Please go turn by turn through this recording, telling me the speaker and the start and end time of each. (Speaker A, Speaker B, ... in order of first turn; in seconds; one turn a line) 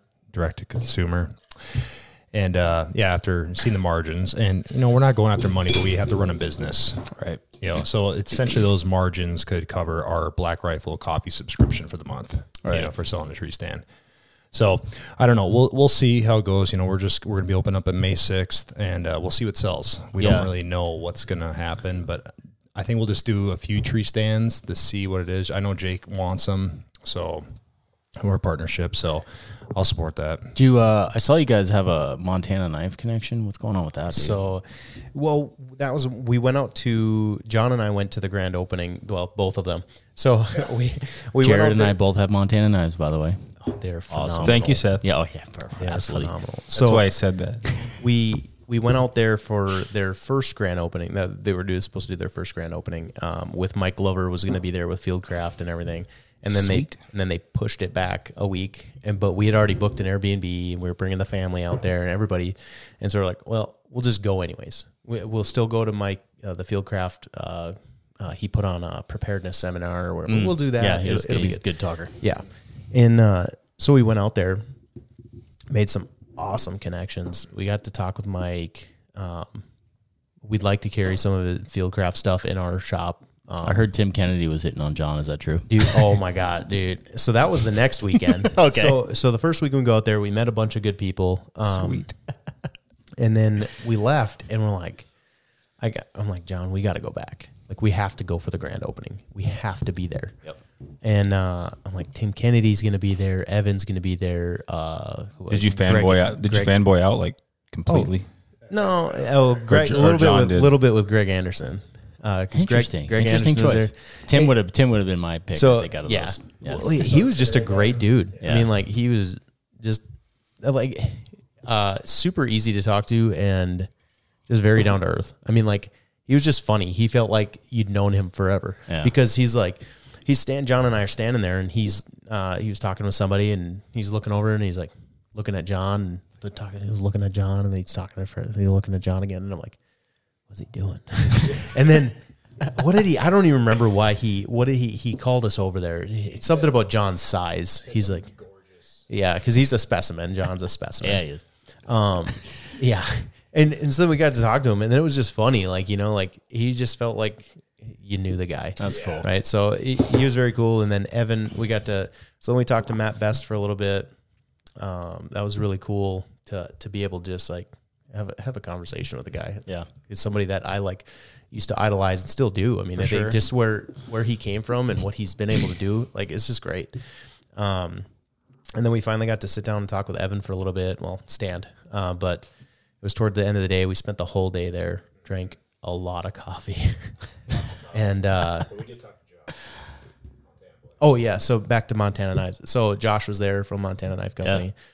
Speaker A: 0.3-7.1
Speaker B: 7.1-7.4
Speaker A: 7.6-13.8
Speaker B: 12.6-12.9
Speaker A: 14.5-27.4
Speaker B: 20.2-20.5
Speaker A: 28.2-30.5
Speaker B: 30.5-34.4
Speaker C: 34.1-41.9
Speaker B: 41.4-43.5
Speaker C: 43.6-44.8
Speaker B: 44.1-46.3
Speaker D: 44.4-45.0
Speaker C: 45.8-47.1
Speaker D: 46.7-47.6
Speaker C: 47.8-71.6
Speaker D: 56.5-56.9
Speaker B: 70.3-72.2
Speaker C: 72.2-74.6
Speaker C: 75.7-79.6
Speaker C: 80.4-83.9
Speaker B: 83.6-86.0
Speaker C: 85.7-92.1
Speaker B: 88.3-89.0
Speaker D: 91.7-92.1
Speaker C: 93.2-95.1
Speaker C: 95.8-100.4
Speaker C: 101.0-106.8
Speaker D: 105.5-108.2
Speaker C: 108.7-114.5
Speaker D: 109.7-110.7
Speaker B: 112.5-116.9
Speaker C: 115.5-120.0
Speaker B: 118.4-118.7
Speaker C: 120.6-123.9
Speaker C: 124.5-139.8
Speaker C: 140.5-148.3
Speaker C: 149.1-151.2
Speaker B: 151.0-151.4
Speaker C: 151.9-164.1
Speaker B: 158.8-159.3
Speaker C: 164.8-177.0
Speaker B: 173.0-173.4
Speaker C: 177.5-178.1
Speaker C: 178.7-182.5
Speaker C: 183.0-187.1
Speaker C: 187.8-188.8
Speaker C: 191.0-194.7